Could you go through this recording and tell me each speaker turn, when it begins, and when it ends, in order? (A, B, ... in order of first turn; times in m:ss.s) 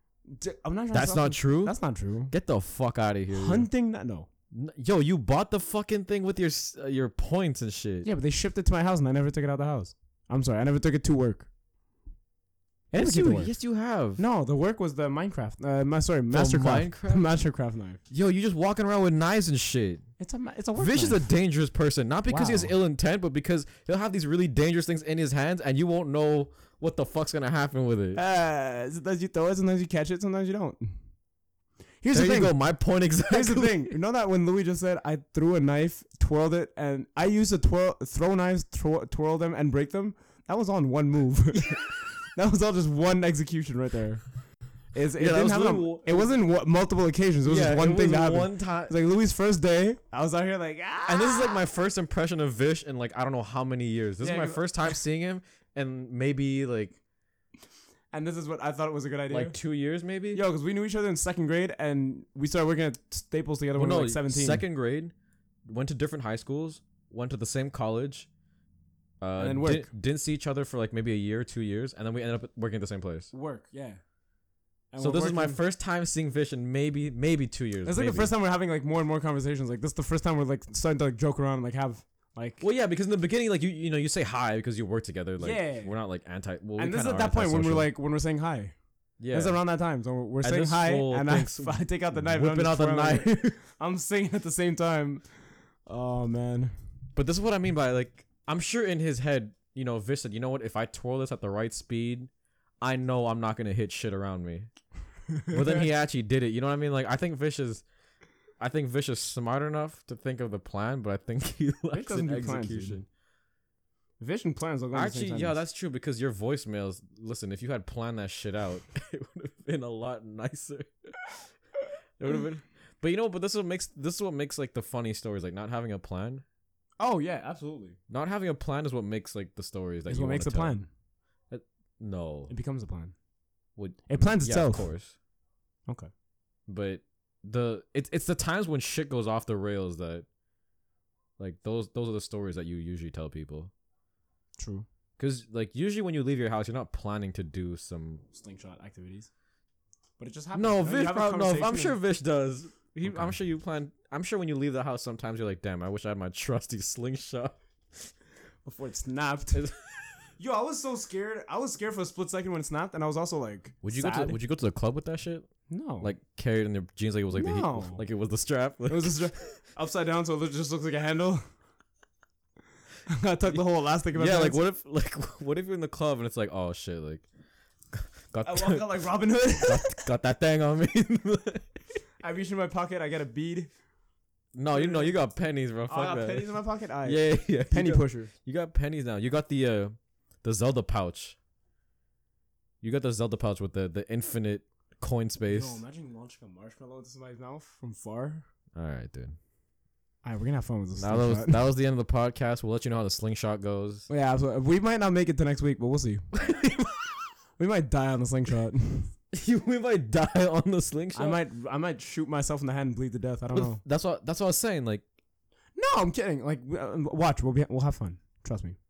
0:00.3-0:02.3 A
0:00.9-0:01.8 B
0:02.3-0:03.7 B
0:03.3-0:04.3 A
0:04.5-0:08.1 B
0:08.0-0:11.5 A
0:12.9-0:13.5 A
0:13.0-0:14.2 B
0:14.2-0:18.0 A
0:16.3-0:17.3 B
0:18.1-0:20.0 B
0:20.2-0:21.3 A
0:20.8-0:28.2 B
0:22.3-0:22.7 A
0:28.2-0:31.0 A
0:32.0-0:32.6 A
0:32.1-0:33.9 B
0:33.3-0:44.2 A
0:44.9-0:51.7 A
0:45.2-0:46.3 B
0:47.4-0:48.9 B
0:51.1-0:57.0 B
0:54.2-0:55.0 A
0:58.1-0:59.6 A
0:59.3-1:00.4 B
1:00.3-1:04.6 A
1:03.8-1:05.1 B
1:05.7-1:08.3 B
1:09.2-1:13.3 B
1:09.4-1:09.9 A
1:13.3-1:14.0 A
1:14.9-1:15.6 A
1:15.0-1:18.3 B
1:17.8-1:22.6 A
1:22.6-1:27.9 B
1:25.4-1:25.9 A
1:26.8-1:28.8 A
1:29.2-1:29.6 B
1:29.3-1:35.2 A
1:30.4-1:33.6 B
1:35.9-1:36.7 A
1:37.2-1:42.3 B
1:42.8-1:44.7 B
1:45.3-1:45.8 A
1:45.5-1:47.8 B
1:48.6-1:53.0 B
1:51.9-1:53.0 A
1:54.2-1:55.6 A
1:54.9-2:01.5 B
2:02.2-2:06.4 B
2:07.0-2:08.0 A
2:08.1-2:10.8 B
2:10.1-2:10.9 A
2:11.5-2:12.5 B
2:12.5-2:13.2 A
2:13.8-2:15.2 B
2:14.1-2:14.9 A
2:16.7-2:20.3 B
2:21.4-2:23.7 B
2:24.6-2:24.9 A
2:25.2-2:28.2 B
2:28.3-2:29.3 A
2:30.2-2:32.0 A
2:30.6-2:38.1 B
2:33.0-2:33.4 A
2:38.6-2:39.7 A
2:39.5-2:40.1 B
2:40.4-2:44.4 A
2:43.8-2:45.5 B
2:45.7-2:46.1 A
2:46.0-2:49.5 B
2:47.4-2:48.0 A
2:48.9-2:51.4 A
2:53.1-2:54.6 A
2:54.1-2:57.3 B
2:57.9-2:59.1 B
2:58.4-3:00.1 A
2:59.6-3:01.7 B
3:02.2-3:03.7 A
3:04.5-3:11.4 B
3:04.7-3:05.2 A
3:05.9-3:08.3 A
3:12.8-3:15.8 B
3:15.4-3:18.5 A
3:18.8-3:19.4 B
3:20.2-3:21.6 A
3:21.0-3:24.1 B
3:24.1-3:26.2 A
3:26.3-3:27.1 B
3:27.6-3:29.1 A
3:29.3-3:31.4 B
3:31.1-3:33.8 A
3:33.5-3:35.0 B
3:35.8-3:38.8 A